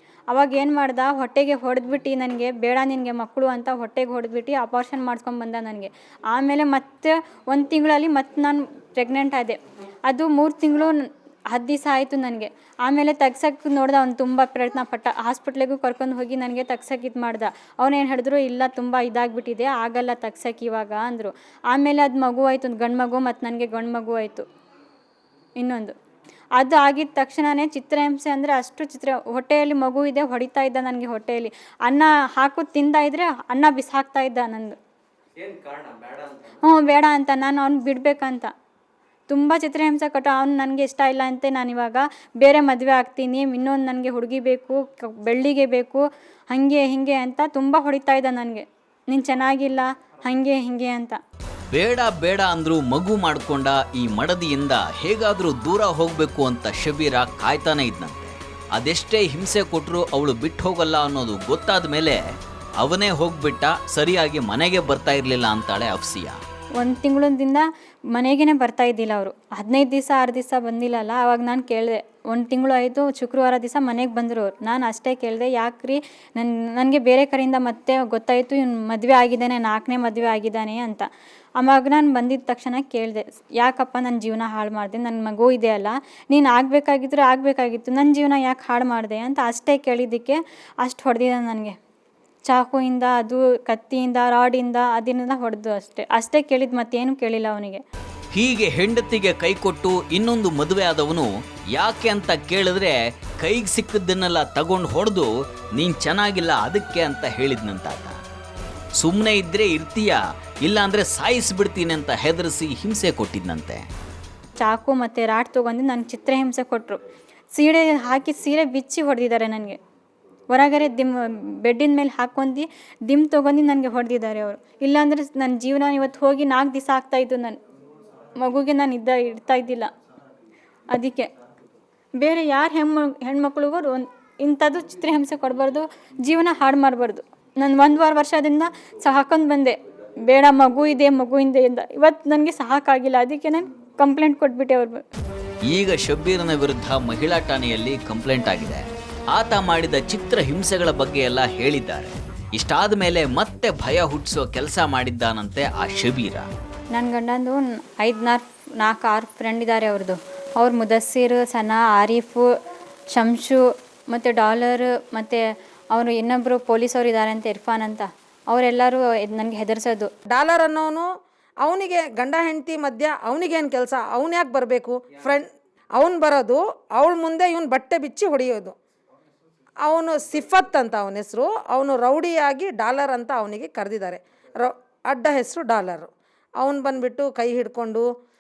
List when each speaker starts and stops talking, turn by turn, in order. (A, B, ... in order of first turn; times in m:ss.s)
0:00.3-0:11.0 A
0:11.5-0:24.5 A
0:25.6-0:26.0 A
0:26.6-0:34.8 A
0:36.4-0:38.5 A
0:39.3-0:51.2 A
0:51.7-1:02.2 B
1:02.8-1:06.4 B
1:06.8-1:21.1 A
1:21.6-1:31.8 A
1:32.5-1:37.8 A
1:38.3-1:48.2 B
1:49.0-1:53.9 B
1:54.6-1:57.0 A
1:57.5-1:59.8 A
2:00.5-2:07.6 A
2:08.4-2:09.9 A
2:10.9-2:11.3 A
2:12.2-2:25.0 A
2:25.7-2:36.5 B
2:36.9-2:42.5 A
2:43.1-2:50.1 A
2:50.3-2:51.1 C
2:51.6-2:58.8 C
2:59.8-3:08.1 C